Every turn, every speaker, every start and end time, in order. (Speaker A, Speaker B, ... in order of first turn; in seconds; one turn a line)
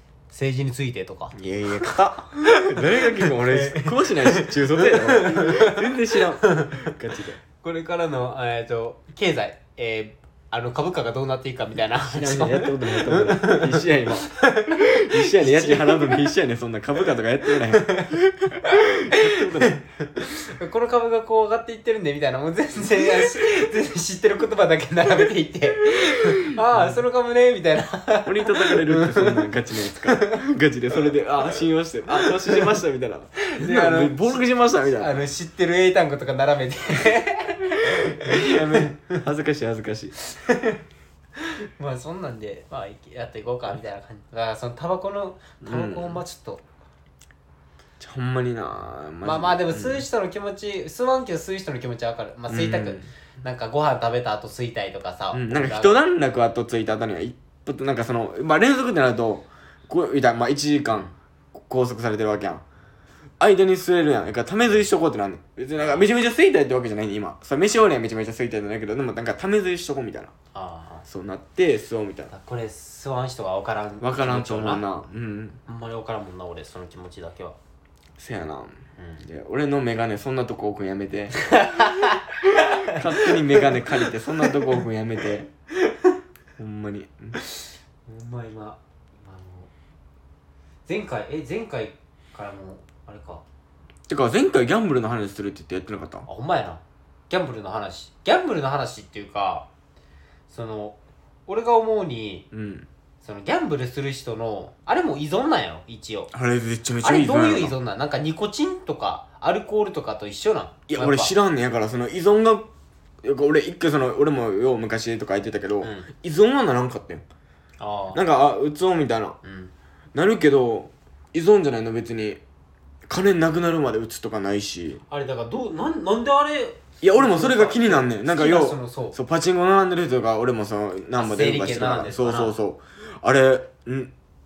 Speaker A: 0.3-1.4
Speaker B: 1.3-7.4
Speaker A: 2.4-6.9
Speaker A: 7.6-16.3
Speaker B: 12.1-19.8
Speaker A: 17.7-29.5
Speaker B: 23.1-23.4
Speaker B: 25.9-27.0
Speaker B: 28.2-35.1
Speaker A: 30.0-30.4
Speaker A: 32.1-32.8
Speaker A: 33.4-34.5
Speaker A: 35.0-39.2
Speaker B: 38.0-40.1
Speaker A: 40.3-40.8
Speaker A: 41.4-46.6
Speaker B: 45.6-46.2
Speaker B: 48.0-50.0
Speaker A: 49.2-56.0
Speaker B: 52.5-53.1
Speaker B: 55.3-62.6
Speaker B: 63.4-70.3
Speaker A: 65.8-66.1
Speaker A: 70.5-71.0
Speaker B: 71.0-72.3
Speaker A: 72.3-74.8
Speaker B: 74.0-75.6
Speaker A: 75.7-77.6
Speaker B: 78.2-81.8
Speaker A: 79.0-79.2
Speaker A: 81.4-83.9
Speaker B: 82.5-85.5
Speaker B: 86.6-87.4
Speaker A: 87.6-89.7
Speaker A: 90.8-93.4
Speaker B: 94.1-96.3
Speaker A: 96.3-99.7
Speaker A: 100.5-102.5
Speaker B: 102.5-102.9
Speaker A: 103.2-106.3
Speaker B: 106.3-107.8
Speaker A: 107.0-111.3
Speaker B: 110.9-112.7
Speaker B: 113.2-117.2
Speaker A: 115.8-116.1
Speaker A: 117.8-118.2
Speaker B: 118.1-119.4
Speaker A: 119.4-119.7
Speaker B: 120.1-122.4
Speaker B: 123.1-125.0
Speaker A: 125.1-129.2
Speaker B: 127.0-134.1
Speaker A: 131.2-132.6